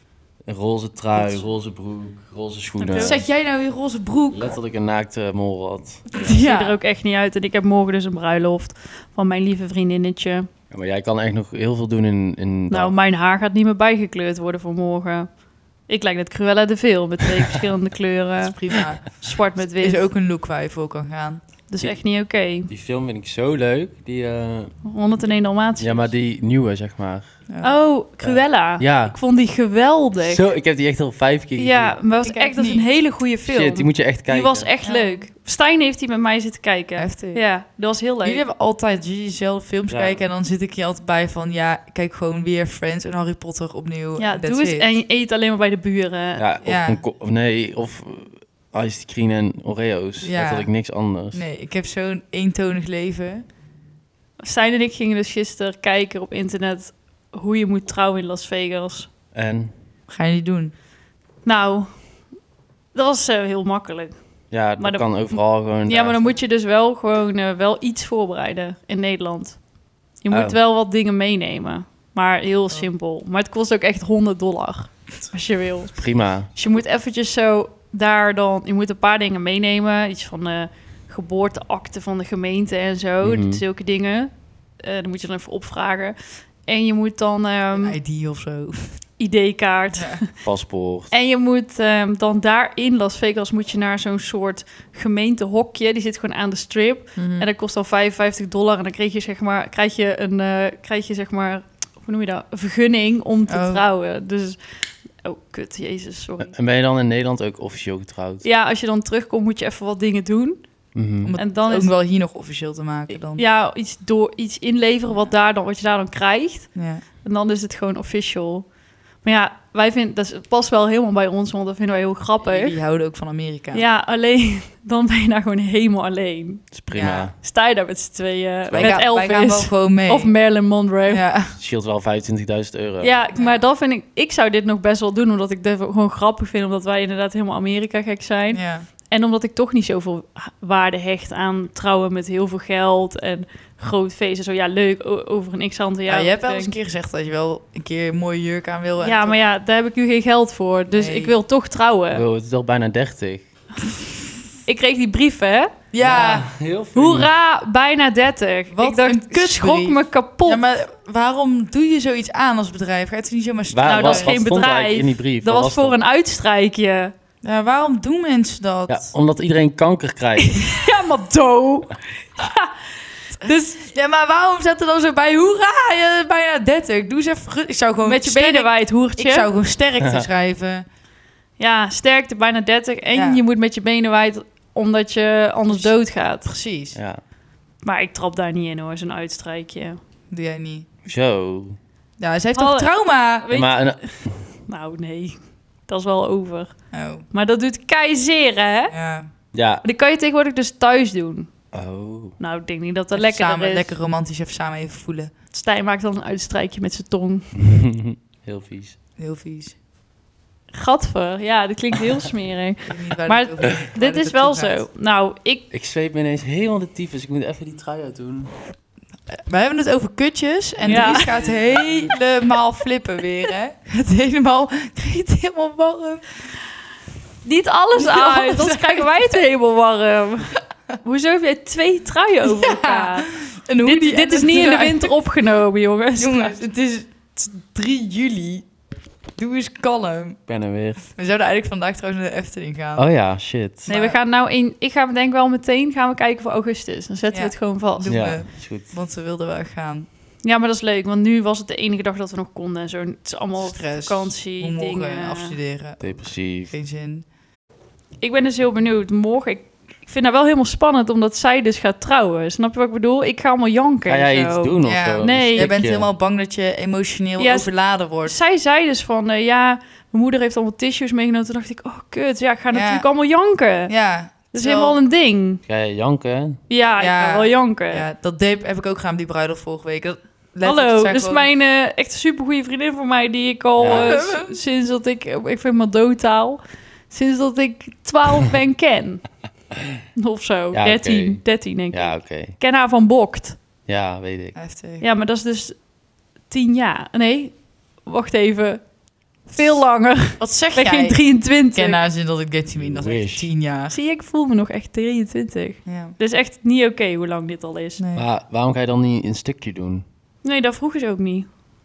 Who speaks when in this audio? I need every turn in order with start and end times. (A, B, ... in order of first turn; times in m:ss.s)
0:00.4-0:03.2 A
0:01.2-0:01.5 B
0:02.8-0:03.2 C
0:03.0-0:04.6 B
0:04.3-0:06.2 A
0:06.1-0:06.8 B
0:06.2-0:10.5 C
0:10.7-0:12.9 A
0:12.7-0:15.3 C
0:15.9-0:20.1 C
0:18.4-0:21.4 B
0:21.7-0:22.7 C
0:21.8-0:24.8 A
0:24.8-0:26.1 C
0:25.8-0:27.4 A
0:27.5-0:27.8 B
0:27.6-0:30.4 C
0:28.2-0:29.2 A
0:30.2-0:32.0 A
0:31.6-0:38.4 C
0:32.2-0:32.8 B
0:33.4-0:34.7 A
0:34.8-0:35.2 B
0:37.0-0:37.4 B
0:38.2-0:44.9 B
0:39.9-0:40.2 A
0:44.2-0:46.4 C
0:46.4-0:51.4 A
0:46.6-0:47.0 B
0:50.2-0:50.7 B
0:51.3-0:53.4 B
0:54.4-0:59.1 C
0:59.3-0:59.7 A
1:00.1-1:00.7 B
1:01.4-1:02.1 C
1:02.9-1:04.2 C
1:04.5-1:06.2 A
1:04.8-1:09.6 C
1:10.2-1:28.0 C
1:10.3-1:10.6 A
1:16.0-1:16.5 A
1:23.2-1:23.6 A
1:27.8-1:28.9 B
1:29.2-1:30.3 C
1:30.4-1:31.1 A
1:31.1-1:44.6 C
1:37.2-1:37.5 B
1:43.5-1:43.8 B
1:45.2-1:46.5 C
1:46.4-1:48.4 A
1:48.4-1:50.6 C
1:50.9-1:51.3 A
1:51.2-1:53.4 B
1:51.4-1:51.9 C
1:53.3-1:56.7 C
1:56.7-1:57.0 B
1:57.2-1:58.6 C
1:59.2-2:02.8 C
2:02.4-2:03.8 B
2:03.7-2:06.7 C
2:06.7-2:07.3 A
2:06.9-2:07.3 B
2:07.4-2:11.2 C
2:08.7-2:09.0 A
2:08.8-2:10.4 B
2:11.1-2:11.5 B
2:11.6-2:13.1 A
2:13.0-2:26.7 C
2:18.5-2:18.9 B
2:26.1-2:29.4 B
2:29.0-2:32.2 C
2:30.9-2:31.3 B
2:32.1-2:33.4 A
2:34.6-2:35.7 C
2:35.9-2:36.5 B
2:36.0-2:37.3 A
2:36.9-2:40.6 C
2:38.7-2:44.4 B
2:43.7-2:46.0 A
2:43.8-2:47.1 C
2:47.4-2:49.1 B
2:48.9-2:50.7 A
2:50.4-2:52.8 C
2:53.4-2:53.8 C
2:53.4-3:00.8 B
2:58.0-2:59.5 C
3:00.0-3:00.3 A
3:01.6-3:06.5 C
3:03.1-3:03.4 B
3:05.7-3:07.0 B
3:06.9-3:07.2 A
3:07.8-3:10.0 C
3:10.3-3:10.9 B
3:11.0-3:11.8 A
3:12.2-3:13.5 B
3:12.6-3:14.1 C
3:13.5-3:14.4 A
3:14.7-3:16.7 C
3:16.9-3:17.2 B
3:17.3-3:18.9 C
3:18.9-3:19.3 B
3:19.5-3:19.8 A
3:19.8-3:21.5 C
3:21.7-3:22.4 A
3:22.4-3:23.9 C
3:23.1-3:25.3 B
3:25.5-3:27.5 C
3:27.6-3:29.0 A
3:29.2-3:29.8 B
3:30.7-3:35.7 C
3:32.8-3:34.8 B
3:35.7-3:38.5 A
3:39.3-3:46.3 B
3:40.8-3:41.3 C
3:47.4-3:56.6 C
3:48.0-3:49.3 B
3:52.4-3:55.2 B
3:56.2-3:58.7 B
3:59.4-4:00.4 B
4:00.5-4:01.0 A
4:01.1-4:03.1 B
4:03.0-4:03.9 A
4:03.8-4:04.2 B
4:03.9-4:08.1 C
4:07.3-4:10.1 B
4:08.1-4:08.9 A
4:10.4-4:15.6 C
4:13.6-4:17.2 B
4:16.0-4:16.7 A
4:18.2-4:25.7 C
4:24.1-4:26.1 A
4:24.8-4:28.4 B
4:27.4-4:27.7 C
4:28.2-4:33.9 C
4:32.7-4:33.0 B
4:33.9-4:35.0 B
4:34.5-4:35.6 C
4:35.7-4:36.6 A
4:36.7-4:38.0 C
4:37.0-4:41.5 B
4:40.6-4:49.2 C
4:43.8-4:44.2 A
4:43.8-4:44.5 B
4:50.2-4:53.6 C
4:50.7-4:52.6 A
4:53.9-4:54.5 A
4:54.5-4:55.0 B
4:55.0-4:55.8 C
4:56.5-4:58.8 C
4:59.5-5:02.0 C
5:00.4-5:01.2 B
5:01.7-5:03.9 B
5:02.8-5:03.4 A
5:03.9-5:08.0 C
5:05.8-5:06.1 B
5:08.0-5:08.3 B
5:08.1-5:10.0 A
5:10.4-5:11.5 C